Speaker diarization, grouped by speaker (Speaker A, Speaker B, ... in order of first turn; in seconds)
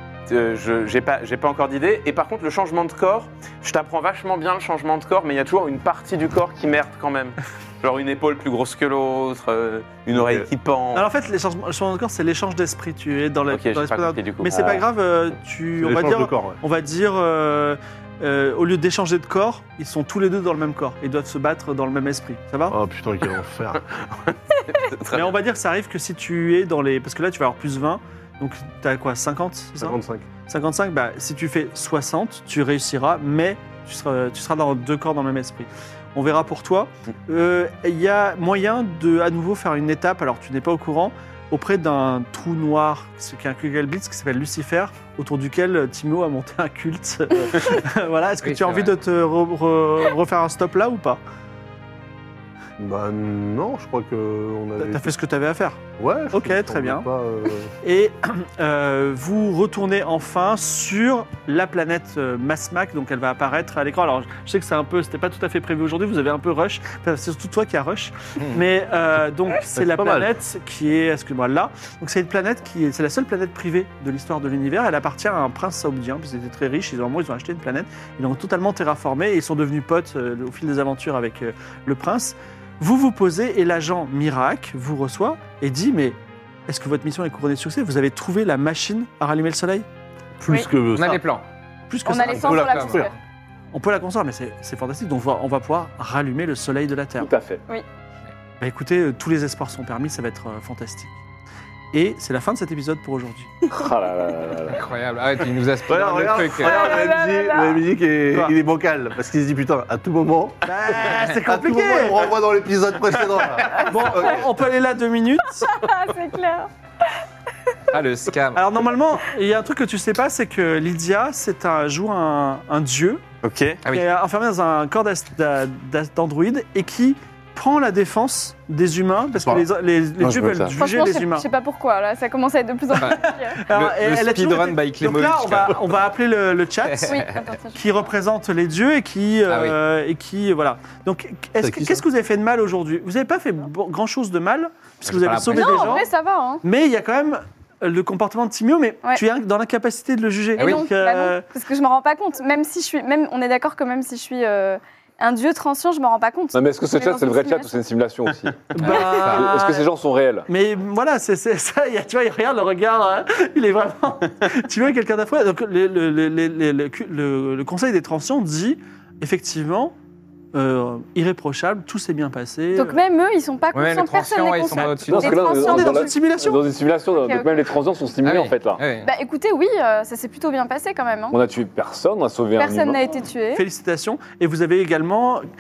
Speaker A: 0.3-11.1, 13.5-14.7, 24.3-25.3, 123.4-123.8
Speaker B: 10.2-10.5, 15.8-16.6, 22.7-23.8, 29.8-30.3, 52.8-55.1, 56.0-57.7, 69.7-70.3, 90.4-91.2, 92.2-93.1, 105.9-114.5, 129.4-129.7, 130.2-130.8, 141.6-142.1
Speaker C: 10.9-22.8, 25.1-51.2, 54.8-55.8, 56.3-57.1, 57.8-89.9, 91.9-92.5, 93.7-97.3, 98.6-101.2, 101.9-103.5, 108.3-108.5, 110.7-112.3, 113.7-115.7, 118.5-123.2, 123.9-131.5, 133.0-137.1, 137.8-146.1, 146.6-151.4, 158.7-159.8, 160.5-169.9, 170.5-173.0, 175.4-176.6, 183.6-185.4
Speaker D: 14.6-14.8, 97.2-97.6, 103.7-104.9, 156.5-160.5, 175.1-178.8, 181.3-183.0
Speaker E: 48.4-49.0, 90.9-91.5, 92.2-93.0, 104.7-107.0, 117.9-118.7, 133.0-136.0, 136.9-137.4, 139.5-139.8, 145.1-146.0, 150.6-150.8, 158.8-159.5, 173.7-175.7, 178.2-179.1
Speaker F: 92.0-93.2, 106.6-107.8, 115.6-117.1, 130.8-133.6, 137.0-137.9, 145.5-146.6, 150.6-157.7, 172.7-176.2, 177.1-177.7, 179.0-181.4, 182.6-183.7